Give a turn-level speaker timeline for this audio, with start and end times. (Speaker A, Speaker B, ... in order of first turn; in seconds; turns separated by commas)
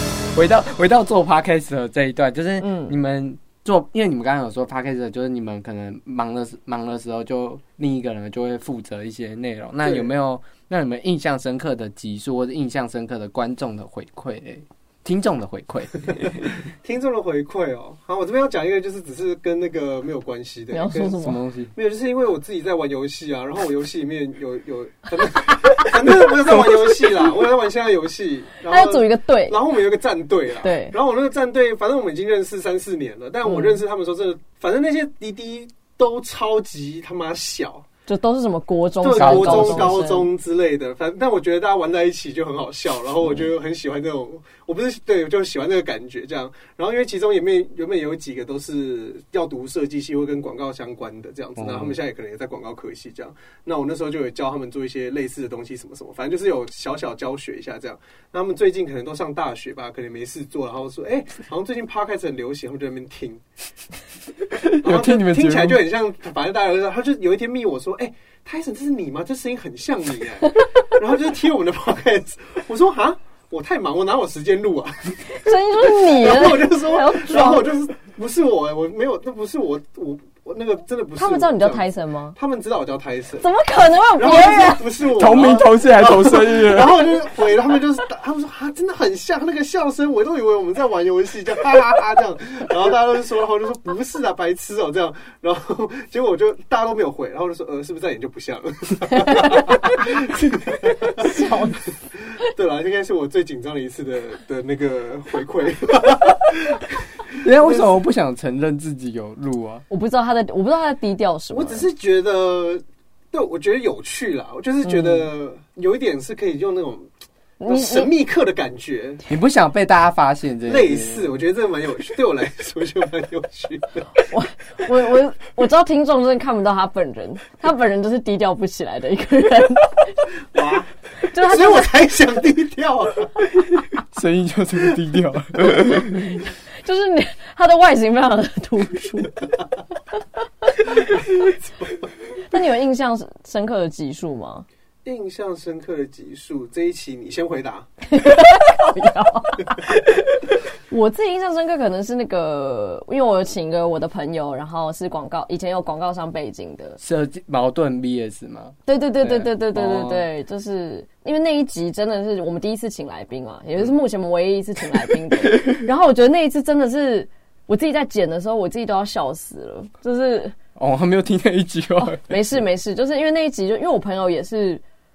Speaker A: 0.3-16.5, Speaker B: 2.6-3.0, Speaker C: 9.8-10.1, Speaker C: 16.8-21.2, Speaker B: 20.7-21.4, Speaker A: 21.2-21.7, Speaker C: 21.7-37.9, Speaker B: 28.7-29.6, Speaker B: 30.6-30.9, Speaker B: 33.5-33.8, Speaker B: 38.1-40.3, Speaker C: 39.0-63.4, Speaker A: 39.2-40.0, Speaker A: 51.6-52.0, Speaker A: 64.6-65.8, Speaker C: 64.7-83.5, Speaker B: 75.2-77.7, Speaker B: 81.2-82.4, Speaker B: 83.4-84.9, Speaker C: 84.2-101.4, Speaker A: 85.2-87.1, Speaker B: 99.2-99.8, Speaker B: 100.9-101.9, Speaker C: 102.3-108.0, Speaker A: 107.4-109.8, Speaker B: 109.9-111.8, Speaker C: 111.5-117.1, Speaker B: 117.6-118.1, Speaker C: 117.7-119.2, Speaker A: 119.3-121.3, Speaker C: 120.7-124.1, Speaker B: 124.2-130.3, Speaker C: 130.5-133.4, Speaker B: 131.2-131.9, Speaker A: 133.9-136.4, Speaker B: 136.0-139.5, Speaker B: 140.8-141.2, Speaker C: 141.1-142.1, Speaker B: 142.5-144.7, Speaker C: 145.1-147.9, Speaker B: 148.1-149.9, Speaker B: 150.9-157.0, Speaker A: 157.0-160.3, Speaker B: 158.9-170.6, Speaker A: 165.4-165.8, Speaker A: 170.8-172.2, Speaker B: 172.0-174.8